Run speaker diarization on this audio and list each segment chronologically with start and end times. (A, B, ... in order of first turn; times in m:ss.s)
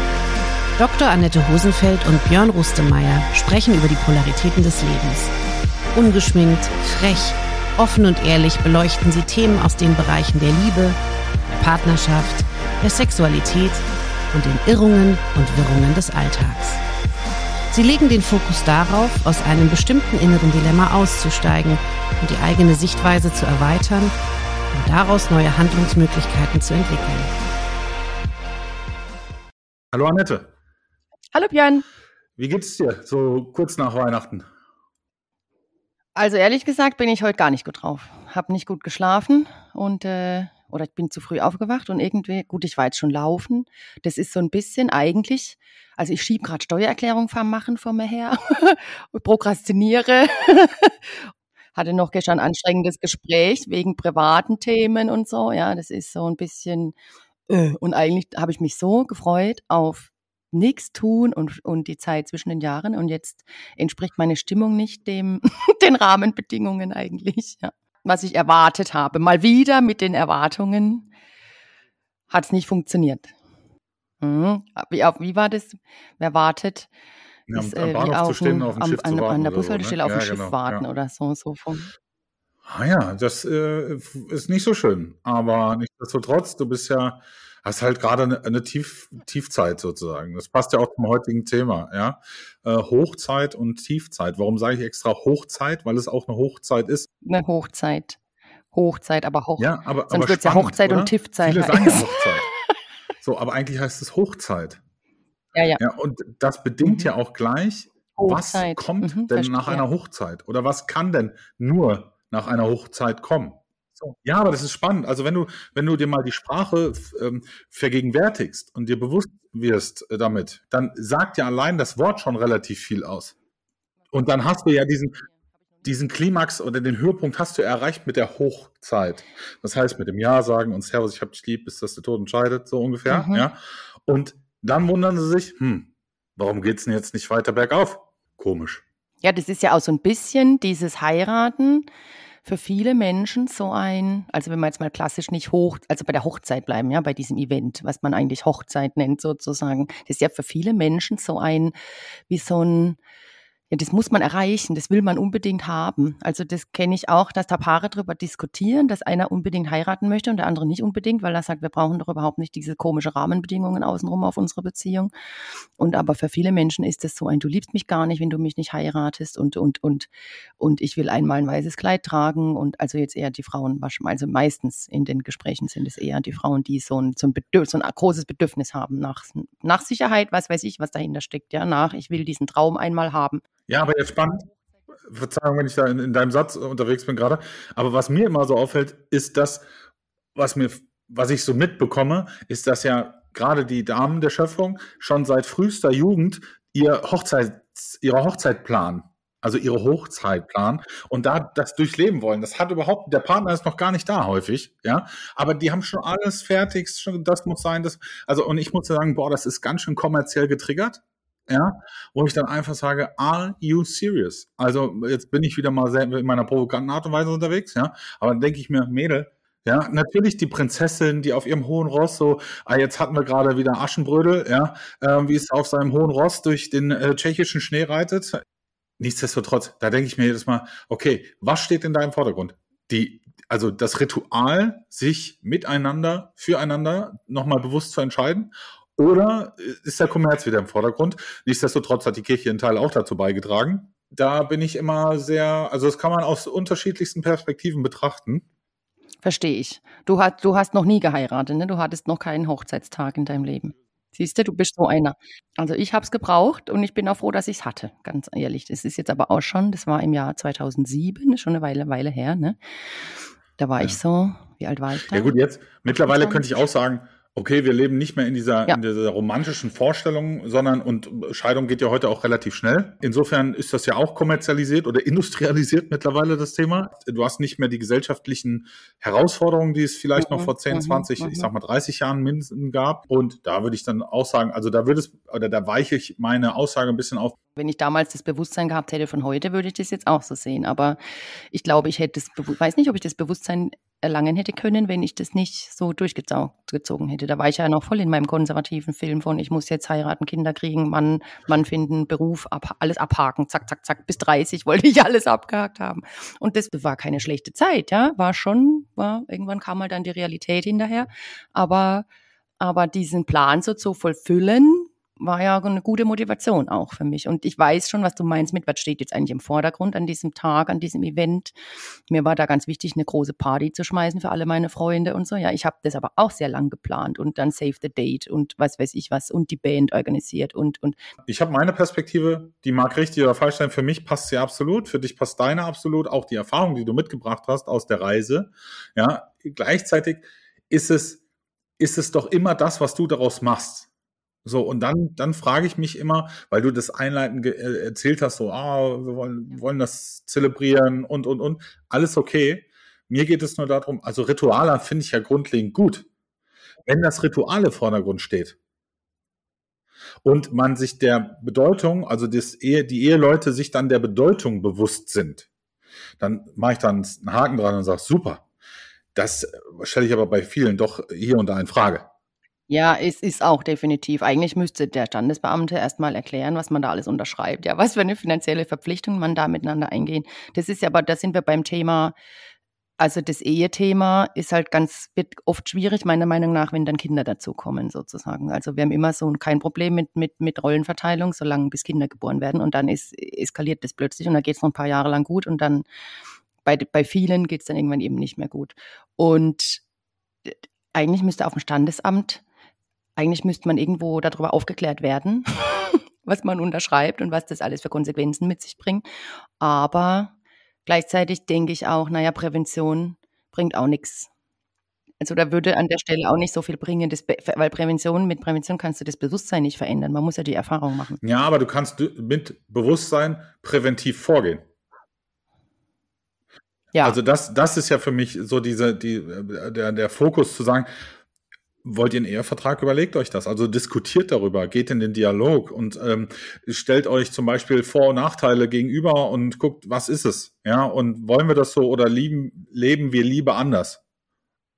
0:00.8-0:05.3 A
0:05.9-0:11.0 A
0:11.5-0:16.8 A
0:17.7-0:24.1 A
0:24.7-0:27.3 A
0:29.9-0:30.5 B
0:31.3-0:31.9 C
0:32.4-0:34.5 B
0:36.2-0:56.9 C
0:57.5-1:11.1 C
1:12.3-1:13.3 C
1:14.2-1:16.9 C
1:17.5-1:20.8 B
1:17.6-1:21.9 C
1:22.7-1:37.1 B
1:37.2-1:38.2 C
1:38.7-1:42.1 C
1:39.6-1:42.5 B
1:43.2-1:44.8 B
1:45.6-1:45.8 C
1:45.8-2:03.3 B
1:46.8-1:47.1 C
1:48.2-1:49.8 C
2:04.1-2:05.2 B
2:05.8-2:18.8 B
2:13.1-2:13.5 C
2:19.2-2:21.9 C
2:22.4-2:31.7 C
2:32.3-2:33.0 C
2:33.7-2:45.1 C
2:45.8-3:03.4 C
3:03.7-3:04.5 B
3:05.0-3:09.6 B
3:10.4-3:48.4 B
3:49.0-4:08.4 B
4:09.2-4:22.6 C
4:23.6-4:25.3 C
4:25.1-4:47.4 B
4:25.9-4:26.4 C
4:40.2-4:41.5 C
4:47.6-4:51.0 C
4:51.5-5:12.1 C
5:12.6-5:21.6 C
5:22.1-5:31.0 C
5:31.3-5:41.2 B
5:41.8-5:43.9 B
5:44.4-5:56.1 B
5:56.9-5:58.6 B
6:00.2-6:05.5 B
6:06.2-6:08.4 B
6:09.2-6:12.1 B
6:12.7-6:22.2 C
6:23.0-6:35.8 C
6:36.6-6:39.8 C
6:40.5-6:42.4 C
6:43.2-6:49.0 C
6:49.6-6:50.3 C
6:50.9-6:54.3 C
6:55.2-7:01.2 C
7:01.2-7:04.6 B
7:07.0-7:10.9 B
7:11.8-7:24.0 B